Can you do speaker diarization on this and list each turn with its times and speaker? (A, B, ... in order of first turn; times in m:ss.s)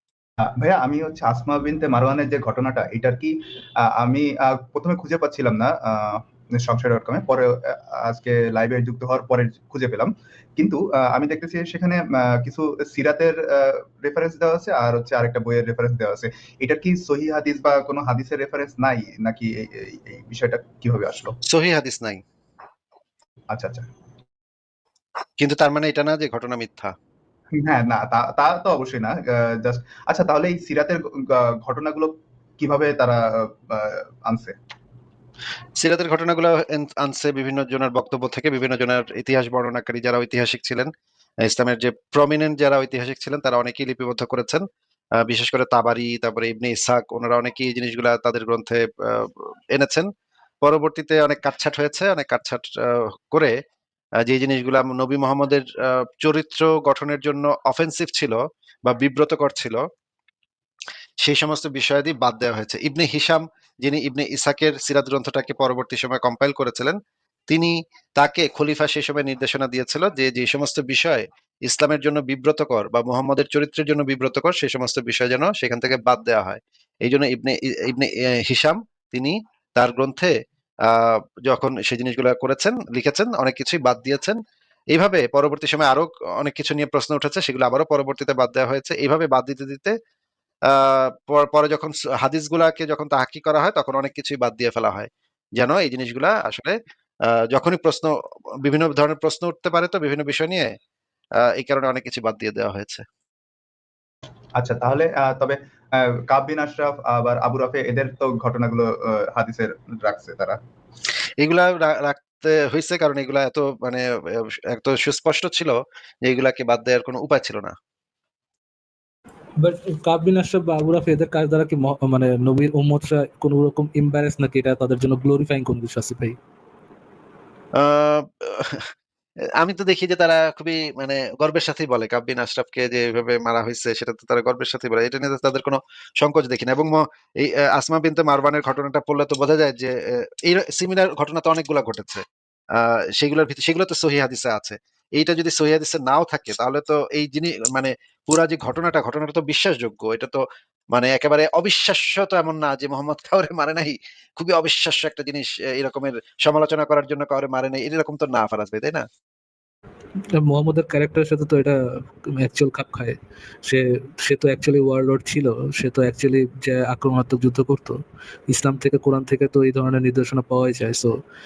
0:00.4-0:03.4 A
0:04.0-0:21.3 A
0:21.5-0:22.2 B
0:23.5-0:23.9 A
0:25.4-0:26.9 B
0:27.6-0:33.2 A
0:33.7-0:34.5 A
0:35.8-0:40.9 B
0:41.4-0:44.6 B
0:45.2-0:50.1 B
0:50.6-0:53.5 B
0:54.2-0:59.8 B
1:01.2-1:07.0 B
1:07.5-1:20.3 B
1:20.8-1:24.4 B
1:24.9-1:29.9 B
1:30.7-1:36.8 B
1:37.5-1:40.7 B
1:41.5-1:43.0 B
1:44.6-1:50.6 A
1:51.4-1:54.0 B
1:54.7-1:57.7 B
1:59.6-2:06.4 C
2:07.8-2:08.9 B
2:09.6-2:19.9 B
2:20.4-2:22.2 B
2:22.8-2:30.4 B
2:30.9-2:39.0 B
2:40.4-2:51.1 C